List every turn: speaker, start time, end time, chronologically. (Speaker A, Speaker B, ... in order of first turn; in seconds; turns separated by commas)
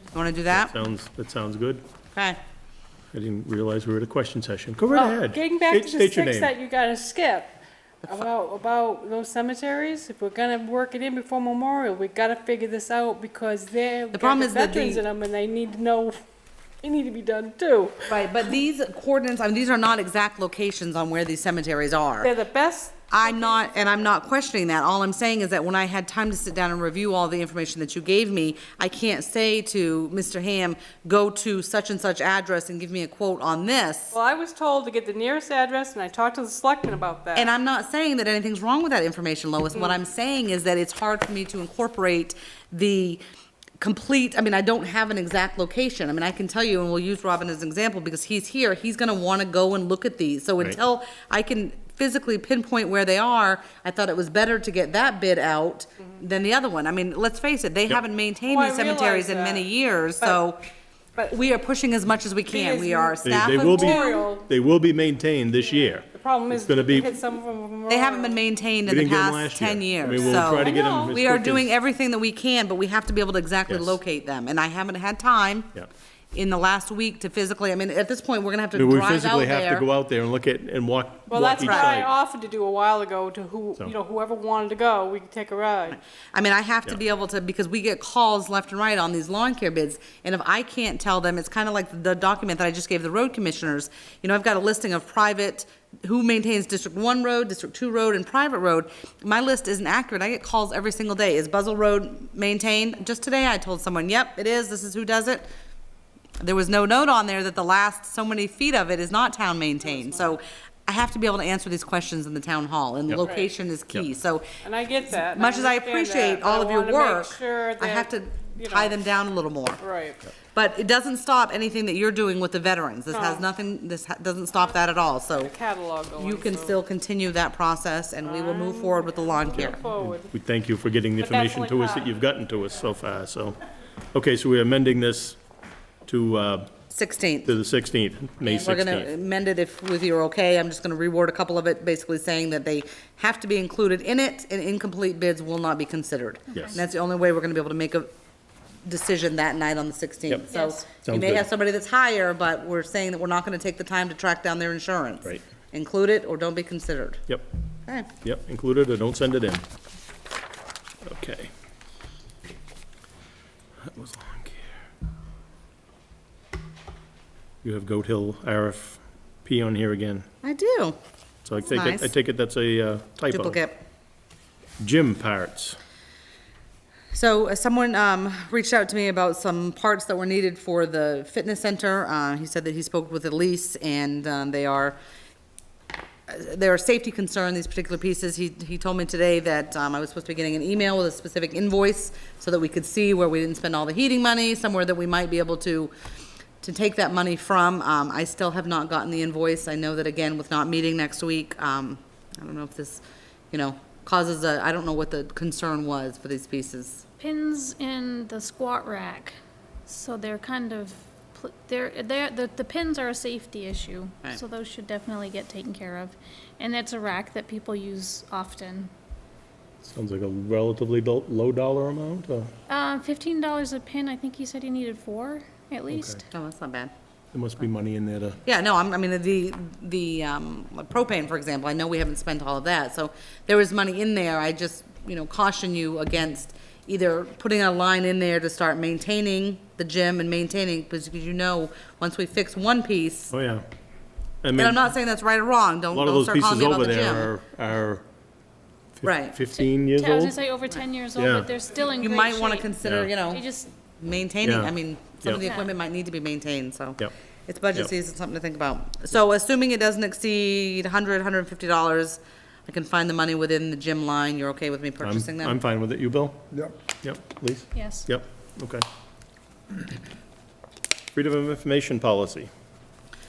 Speaker A: 0.1-0.8, Speaker B: 0.5-1.8, Speaker B: 3.1-6.5, Speaker C: 4.9-16.2, Speaker A: 14.1-15.0, Speaker C: 16.8-18.1, Speaker A: 18.1-22.3, Speaker C: 22.2-24.1, Speaker A: 23.1-34.1, Speaker C: 34.1-37.5, Speaker A: 37.4-43.2, Speaker A: 43.8-60.6, Speaker C: 58.5-59.6, Speaker A: 61.3-64.1, Speaker C: 62.5-64.5, Speaker B: 63.2-67.2, Speaker C: 66.0-68.4, Speaker A: 67.9-75.8, Speaker B: 68.9-71.7, Speaker C: 70.1-71.1, Speaker B: 73.7-74.0, Speaker A: 76.3-79.9, Speaker B: 78.8-82.1, Speaker C: 81.3-86.0, Speaker A: 81.6-82.0, Speaker A: 86.3-105.5, Speaker A: 106.4-114.5, Speaker C: 109.8-110.2, Speaker C: 113.2-113.5, Speaker C: 114.6-119.0, Speaker A: 115.2-119.8, Speaker C: 119.8-120.2, Speaker A: 120.5-125.5, Speaker C: 123.1-123.5, Speaker C: 125.3-126.8, Speaker A: 126.2-129.8, Speaker C: 128.2-130.3, Speaker B: 129.6-133.6, Speaker C: 131.2-132.1, Speaker B: 134.1-135.4, Speaker B: 136.1-136.7, Speaker A: 136.9-137.5, Speaker B: 137.5-139.1, Speaker A: 138.4-148.1, Speaker A: 148.8-157.2, Speaker D: 150.5-150.8, Speaker B: 151.0-151.5, Speaker B: 158.2-159.6, Speaker B: 161.0-161.5, Speaker B: 163.8-164.8, Speaker B: 167.6-170.2, Speaker A: 170.4-171.0, Speaker B: 171.4-173.6, Speaker A: 171.7-172.1, Speaker A: 173.3-173.8, Speaker B: 174.8-175.8, Speaker A: 177.1-185.0, Speaker A: 186.3-195.9, Speaker A: 196.6-207.1, Speaker D: 207.2-209.3, Speaker D: 209.9-218.9, Speaker B: 219.8-222.5, Speaker D: 222.7-226.3, Speaker B: 225.9-226.2, Speaker A: 226.3-226.9, Speaker B: 227.3-228.4, Speaker A: 228.4-243.3, Speaker B: 243.3-243.7, Speaker B: 244.4-244.9, Speaker A: 244.6-247.3, Speaker B: 245.9-248.0, Speaker B: 249.0-250.4, Speaker A: 249.0-249.4, Speaker D: 249.6-252.7, Speaker B: 251.2-251.5, Speaker A: 252.0-253.4, Speaker B: 252.8-253.1, Speaker D: 253.3-253.7, Speaker A: 254.0-265.6, Speaker B: 254.4-255.4, Speaker D: 255.4-255.7, Speaker B: 265.0-268.8, Speaker D: 267.7-268.1, Speaker B: 271.1-272.5